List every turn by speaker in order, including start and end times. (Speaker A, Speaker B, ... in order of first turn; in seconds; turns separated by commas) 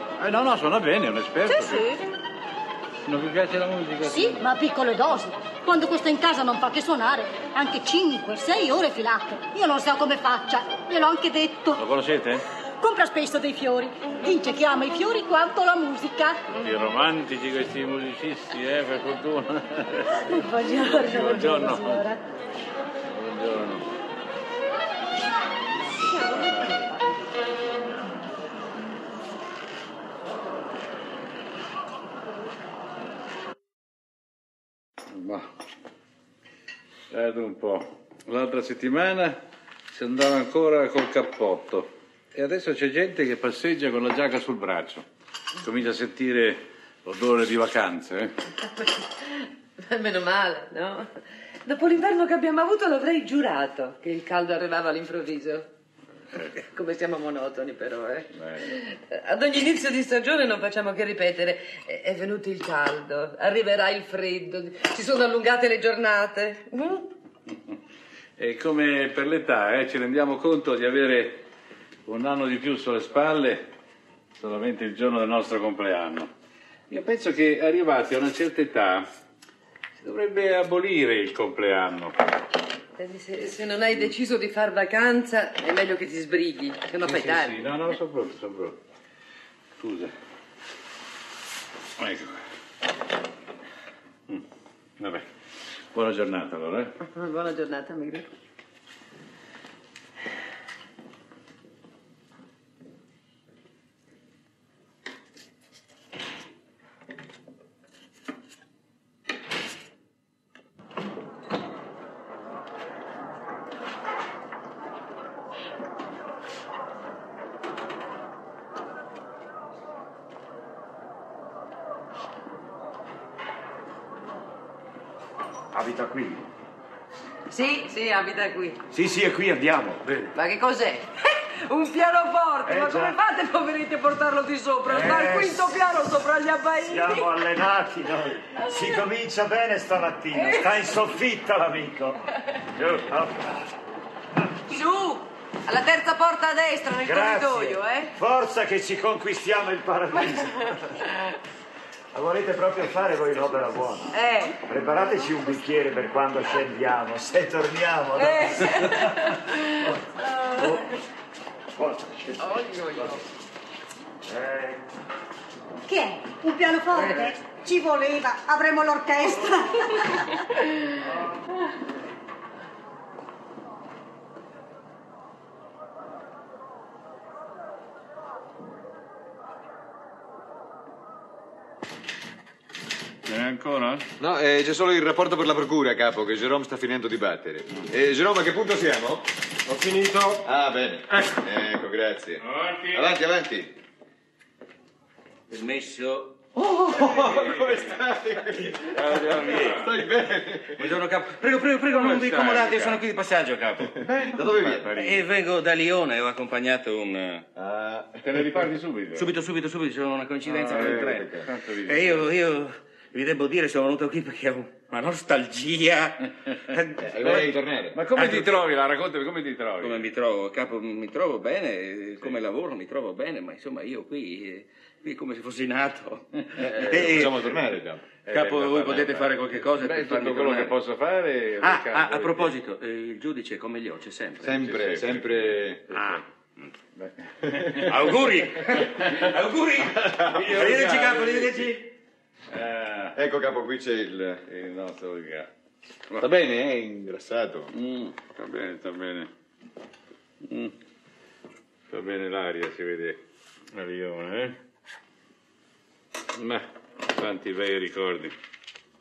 Speaker A: 0.2-1.8, Speaker B: 1.5-2.0, Speaker A: 3.0-4.4, Speaker B: 4.0-11.8, Speaker A: 11.8-12.4, Speaker B: 12.8-16.4, Speaker A: 16.5-20.2, Speaker C: 20.3-22.2, Speaker A: 20.8-22.0, Speaker A: 23.1-23.8, Speaker C: 26.0-26.9, Speaker A: 35.1-35.5, Speaker A: 37.1-39.4, Speaker A: 39.9-45.0, Speaker A: 45.6-48.3, Speaker C: 48.8-55.7, Speaker C: 56.5-67.1, Speaker A: 58.3-58.8, Speaker A: 68.4-71.4, Speaker A: 72.0-73.7, Speaker A: 74.4-76.3, Speaker A: 76.9-79.0, Speaker A: 80.0-82.3, Speaker C: 83.0-87.7, Speaker A: 87.0-88.8, Speaker A: 89.8-90.1, Speaker A: 92.0-92.4, Speaker A: 95.0-95.2, Speaker A: 95.9-96.9, Speaker C: 97.0-98.3, Speaker D: 125.7-126.4, Speaker C: 127.5-128.8, Speaker D: 128.9-130.3, Speaker C: 130.3-137.3, Speaker D: 132.7-133.2, Speaker D: 134.9-135.8, Speaker D: 136.9-142.2, Speaker C: 140.3-140.6, Speaker D: 142.8-143.7, Speaker C: 144.7-148.1, Speaker D: 147.0-151.1, Speaker D: 152.1-159.4, Speaker C: 154.1-154.6, Speaker C: 158.2-159.7, Speaker C: 160.2-160.7, Speaker D: 160.5-160.8, Speaker D: 161.8-162.3, Speaker C: 162.4-163.2, Speaker D: 164.3-164.8, Speaker B: 165.9-170.3, Speaker A: 183.3-184.1, Speaker E: 184.2-189.2, Speaker E: 189.9-193.7, Speaker A: 192.4-193.2, Speaker F: 195.5-197.6, Speaker E: 196.8-200.9, Speaker A: 197.0-198.0, Speaker F: 198.9-199.9, Speaker A: 198.9-200.1, Speaker F: 200.8-207.4, Speaker A: 201.9-203.0, Speaker E: 204.3-204.9, Speaker E: 207.6-208.0, Speaker A: 208.2-209.3, Speaker F: 209.1-218.5, Speaker A: 210.4-212.2, Speaker E: 210.7-211.3, Speaker E: 217.2-217.9, Speaker A: 217.9-220.1, Speaker F: 219.8-230.8, Speaker E: 226.9-227.9, Speaker A: 228.3-232.5, Speaker F: 231.6-236.2, Speaker A: 234.4-236.2, Speaker A: 237.0-241.8, Speaker F: 237.8-241.7, Speaker A: 242.5-243.2, Speaker E: 243.1-244.4, Speaker A: 244.4-245.5, Speaker E: 246.2-247.7, Speaker A: 247.7-249.3, Speaker A: 250.4-250.7, Speaker A: 251.9-253.2, Speaker A: 253.7-254.6, Speaker A: 256.4-258.3